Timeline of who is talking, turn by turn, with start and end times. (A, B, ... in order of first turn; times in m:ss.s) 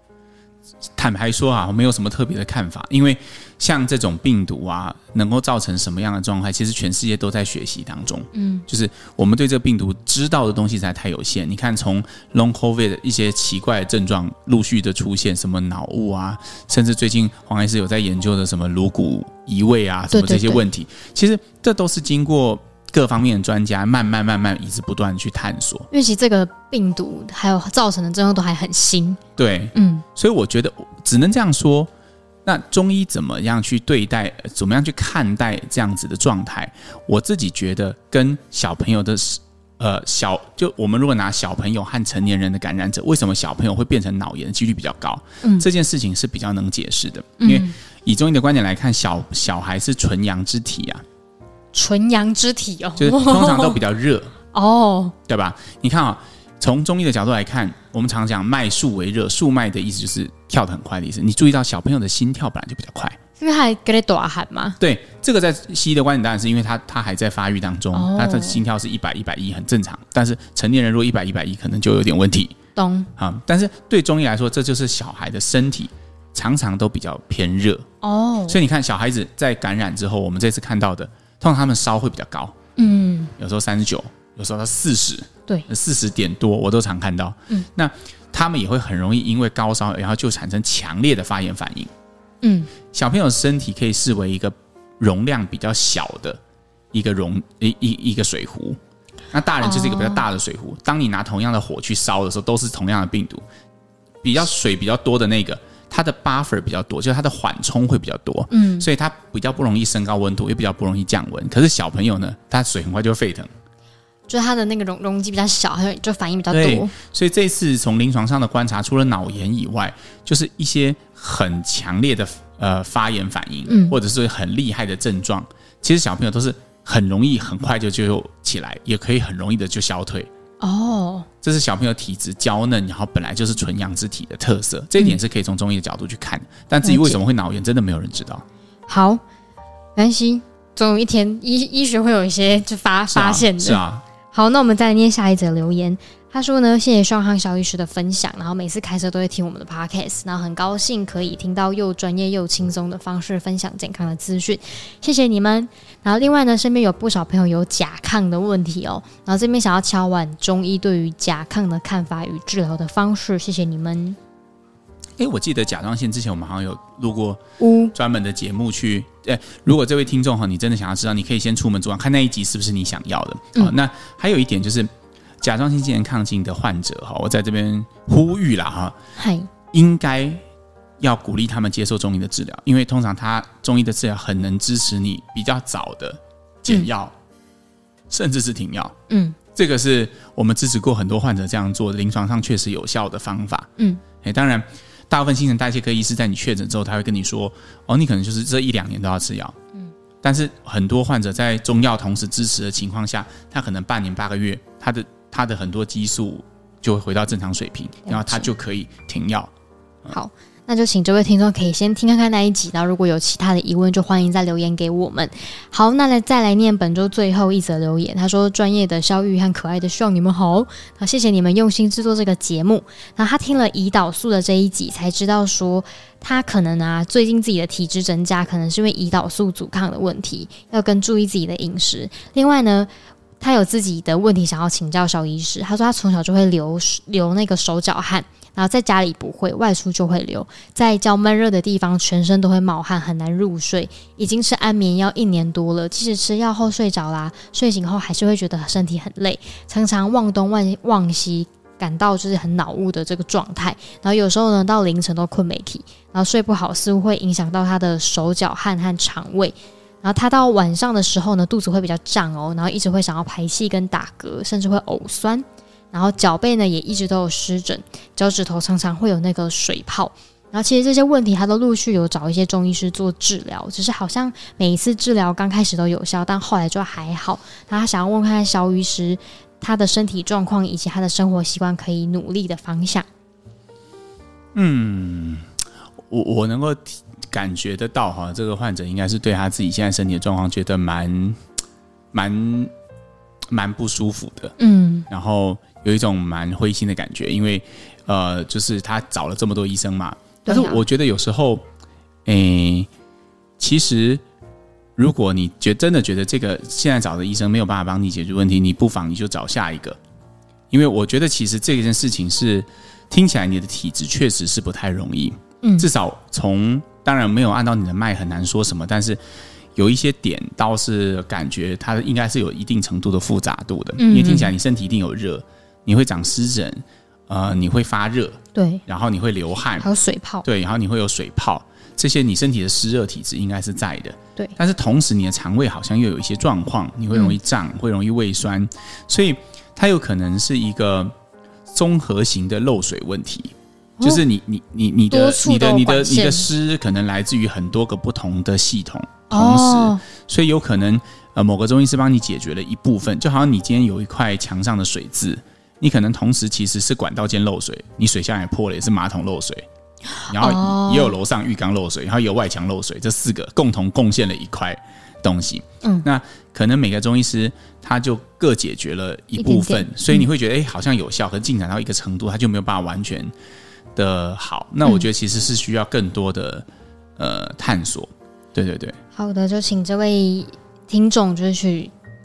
0:01.0-0:25.9 A
0:08.3-0:08.6 B
0:20.1-0:20.6 B
0:25.9-0:29.2 B
0:29.4-0:31.9 A
0:29.7-0:30.0 B
0:32.4-0:51.0 A
0:47.4-0:47.7 B
0:51.7-0:53.8 B
0:53.0-0:54.3 A
0:54.5-0:55.1 B
0:55.3-1:03.2 A
1:03.4-1:04.8 B
1:04.8-1:12.5 A
1:07.9-1:08.6 B
1:12.8-1:13.1 B
1:13.2-1:17.8 A
1:18.0-1:18.6 B
1:18.5-1:22.5 A
1:22.8-1:23.3 B
1:23.4-1:31.9 A
1:32.4-1:32.7 B
1:32.9-1:36.4 A
1:36.9-1:38.8 A
1:39.3-1:43.4 A
1:39.6-1:40.2 B
1:44.2-1:53.5 A
1:48.5-1:48.9 B
1:54.3-1:56.9 B
1:56.5-2:10.3 A
2:03.7-2:04.0 B
2:10.6-2:11.3 B
2:11.4-2:18.4 A
2:16.8-2:17.2 B
2:18.9-2:19.2 B
2:20.0-2:44.2 B
2:23.1-2:24.0 A
2:45.2-2:47.4 A
2:47.6-2:47.9 B
2:47.9-2:54.9 A
2:55.4-2:59.0 A
2:59.2-2:59.5 B
2:59.7-3:00.4 A
3:01.0-3:07.1 A
3:08.1-3:08.9 A
3:09.1-3:09.4 B
3:09.5-3:13.7 A
3:14.2-3:19.6 A
3:20.2-3:29.5 A
3:28.1-3:28.5 B
3:30.1-4:43.0 B
4:44.5-4:45.4 A
4:46.1-4:51.4 A
4:52.1-4:52.7 A
4:53.5-4:54.5 A
4:54.6-4:55.1 B
4:55.1-5:01.6 A
5:00.4-5:00.8 B
5:02.2-5:02.9 A
5:03.6-5:04.2 A
5:05.0-5:10.0 A
5:10.7-5:19.2 A
5:19.7-5:29.9 A
5:24.0-5:24.5 B
5:28.5-5:28.8 B
5:29.8-5:30.4 B
5:30.4-5:41.1 A
5:41.7-5:59.6 A
5:45.1-5:46.5 B
5:49.3-5:50.0 B
6:00.2-6:01.1 B
6:00.3-6:13.3 A
6:09.4-6:10.3 B
6:14.0-6:16.6 A
6:17.2-6:19.0 A
6:19.2-6:21.9 B